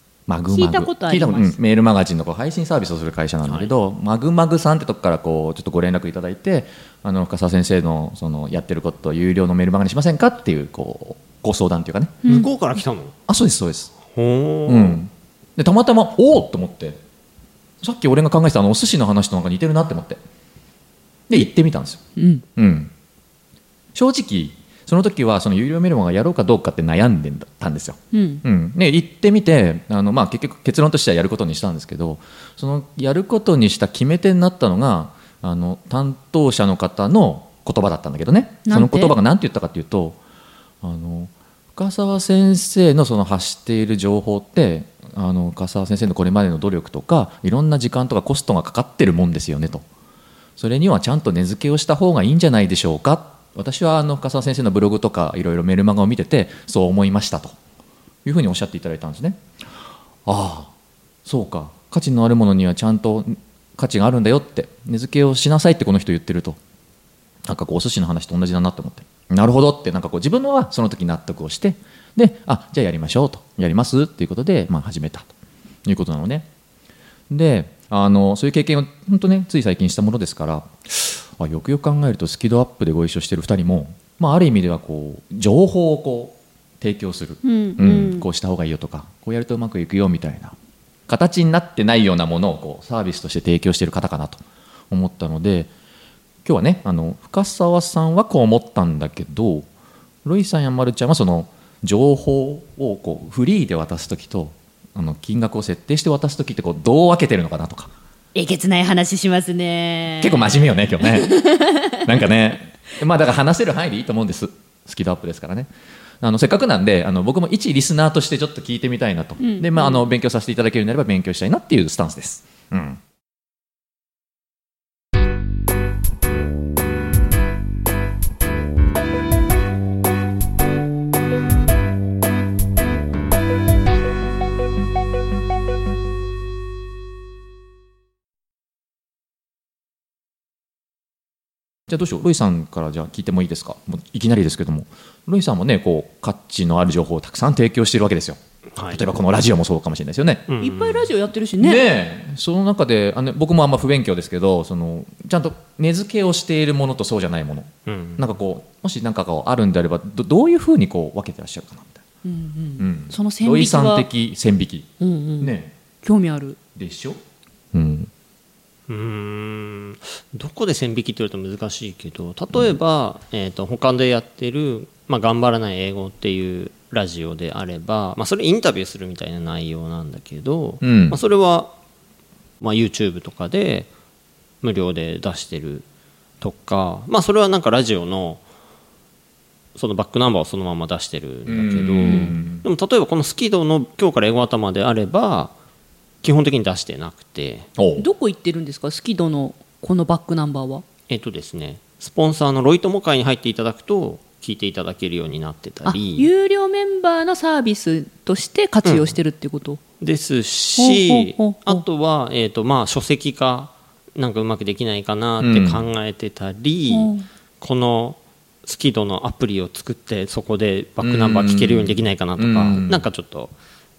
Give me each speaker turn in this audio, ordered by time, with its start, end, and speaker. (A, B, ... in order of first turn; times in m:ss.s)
0:00.3-0:12.2 A
0:00.5-0:01.6 B
0:03.4-0:03.7 C
0:12.2-0:13.1 C
0:13.3-0:13.9 A
0:14.1-0:15.0 C
0:14.7-0:17.0 A
0:17.8-0:20.2 A
0:21.3-0:22.0 A
0:22.2-0:22.4 B
0:22.6-0:22.9 A
0:23.9-0:40.2 A
0:28.1-0:28.4 B
0:38.6-0:39.2 B
0:40.8-0:49.8 A
0:50.6-0:57.6 A
0:58.2-0:59.4 A
1:00.2-1:00.7 A
1:01.2-1:06.6 A
1:07.4-1:15.3 A
1:15.8-1:16.5 A
1:17.3-1:30.6 A
1:27.4-1:28.3 B
1:31.1-1:35.7 A
1:36.4-1:39.7 A
1:40.2-1:47.9 A
1:48.3-1:52.1 B
1:50.2-1:51.4 A
1:51.9-1:55.7 A
1:56.2-2:03.0 A
1:59.4-2:00.1 B
2:21.9-2:30.5 A
2:28.8-2:29.0 C
2:30.5-2:31.1 C
2:30.6-2:31.8 B
2:31.6-2:42.0 A
2:37.9-2:38.2 C
2:42.2-2:44.1 B
2:42.8-2:45.7 A
2:45.0-2:46.6 B
2:46.7-2:47.2 A
2:47.7-2:48.1 A
2:48.9-3:01.7 C
3:00.8-3:01.2 A
3:02.6-3:03.9 C
3:04.6-3:05.8 C
3:06.4-3:08.4 C
3:09.7-3:15.5 C
3:11.4-3:12.6 A
3:12.0-3:12.3 B
3:16.2-3:17.7 C
3:17.8-3:18.1 A
3:18.0-3:20.8 B
3:21.1-3:26.3 C
3:25.8-3:29.8 B
3:28.8-3:29.1 C
3:30.0-3:43.5 C
3:30.8-3:31.8 B
3:35.4-3:35.8 A
3:36.9-3:37.2 B
3:41.0-3:43.1 A